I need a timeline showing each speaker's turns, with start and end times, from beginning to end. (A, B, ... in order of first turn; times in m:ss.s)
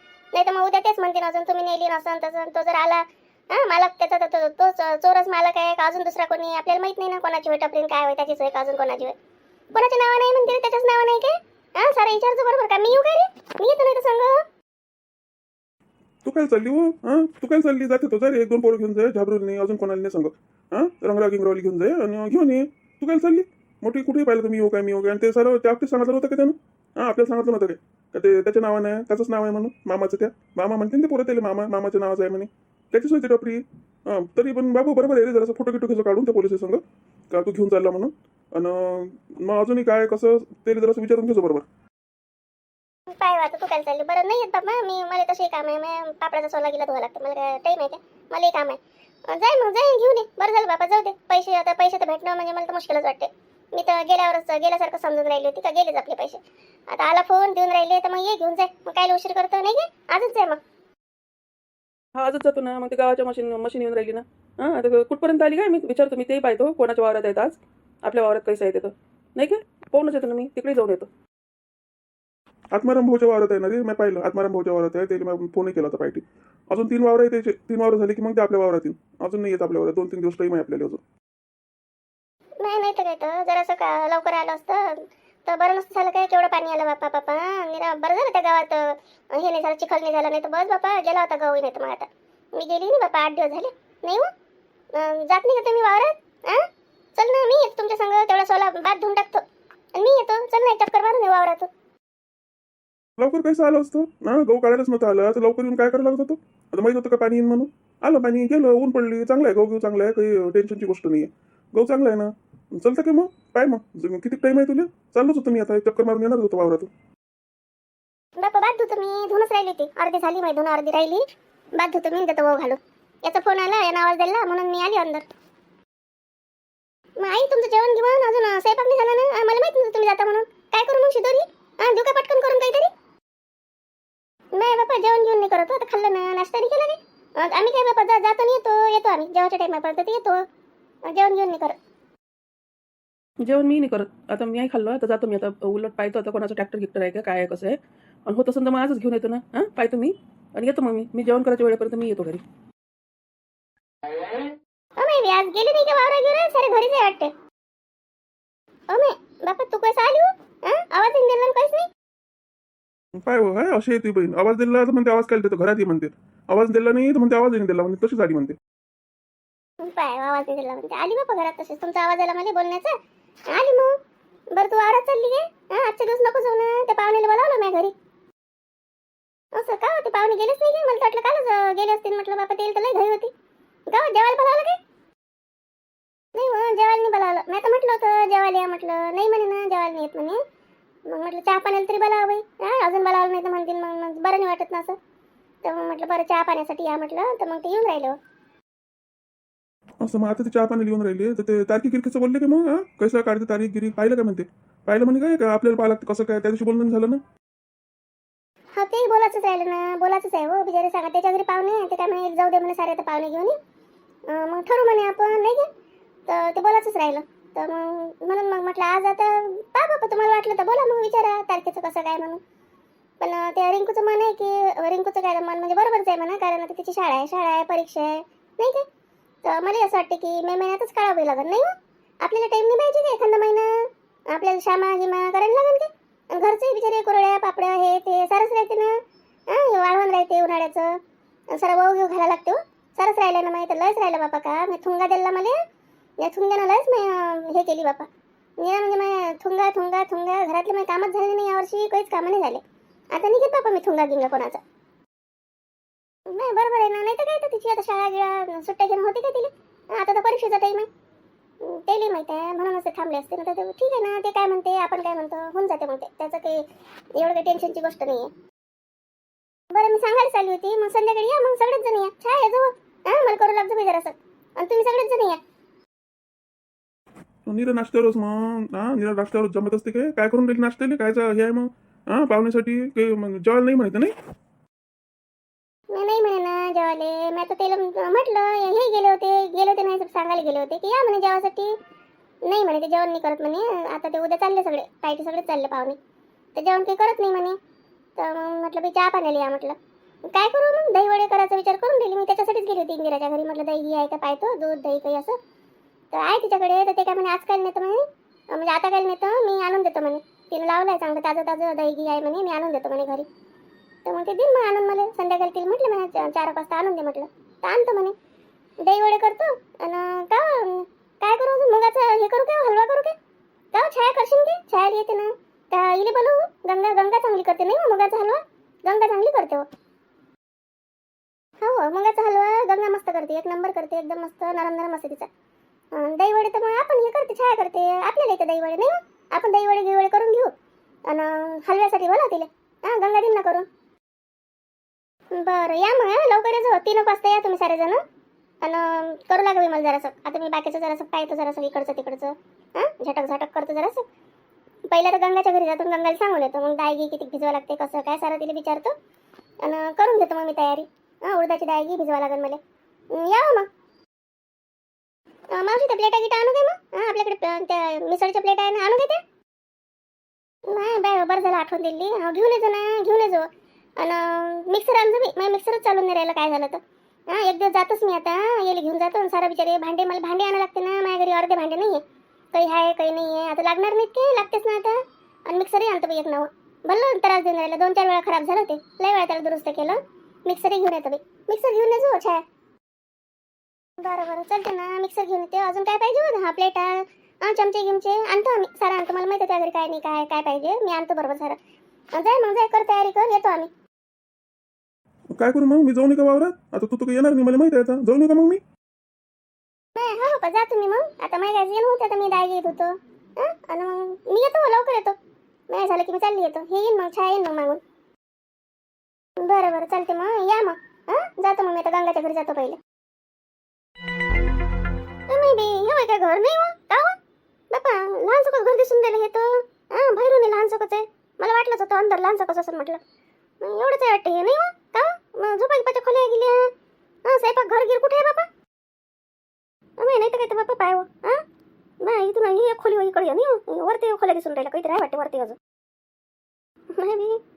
0:00.3-0:09.2 A
0:09.7-0:14.4 A
0:16.2-0:41.6 B
0:43.1-1:00.6 A
1:02.2-1:11.1 C
1:12.7-1:21.0 B
1:22.6-1:34.3 A
1:34.9-1:39.4 A
1:40.0-1:41.7 A
1:43.2-1:56.9 B
1:58.4-2:01.2 A
2:01.8-2:05.2 A
2:07.2-2:12.9 A
2:14.6-2:20.4 A
2:21.1-2:21.8 A
2:23.4-2:32.4 C
2:35.0-2:37.3 A
2:38.9-2:41.9 A
2:43.2-2:48.6 B
2:49.8-2:53.0 A
2:53.5-2:53.9 A
2:54.5-2:57.9 A
2:59.6-3:03.3 A
3:03.9-3:04.8 A
3:06.4-3:10.4 A
3:11.1-3:15.0 A
3:15.6-3:18.2 A
3:20.0-3:27.2 B
3:28.8-3:33.6 A
3:34.3-3:35.7 A
3:36.3-3:42.4 A
3:43.2-3:48.8 A
3:49.4-3:51.7 A
3:52.2-3:59.0 A
3:59.5-4:01.0 A
4:01.5-4:05.6 A
4:06.2-4:08.1 A
4:08.6-4:14.6 A
4:16.3-4:20.9 A
4:21.6-4:26.6 A
4:27.2-4:28.3 A
4:29.7-4:35.4 A
4:37.5-4:44.1 B
4:45.9-4:51.8 A
4:52.5-4:56.0 A
4:56.6-4:57.6 A
4:58.2-5:05.4 A
5:06.1-5:08.0 A
5:08.5-5:13.3 A
5:14.1-5:18.1 A
5:18.8-5:23.1 A
5:23.7-5:29.6 A
5:31.6-5:35.3 A
5:35.9-5:40.5 A
5:41.1-5:43.7 A
5:45.3-5:48.0 A
5:48.6-5:54.0 A
5:54.9-5:58.9 A
5:59.6-6:02.6 A
6:03.1-6:03.7 A
6:05.5-6:09.2 A
6:10.7-6:13.5 A
6:14.0-6:16.8 A
6:17.3-6:22.0 A
6:22.5-6:32.4 A
6:34.0-6:41.6 A
6:42.1-6:43.7 A
6:45.3-6:48.6 B
6:50.0-6:55.2 A
6:55.7-6:57.8 A
6:59.4-7:02.8 A
7:05.3-7:07.2 A
7:07.7-7:13.0 A
7:13.6-7:16.7 A
7:17.3-7:18.5 A
7:20.0-7:21.4 A
7:22.0-7:25.6 A
7:27.0-7:27.4 A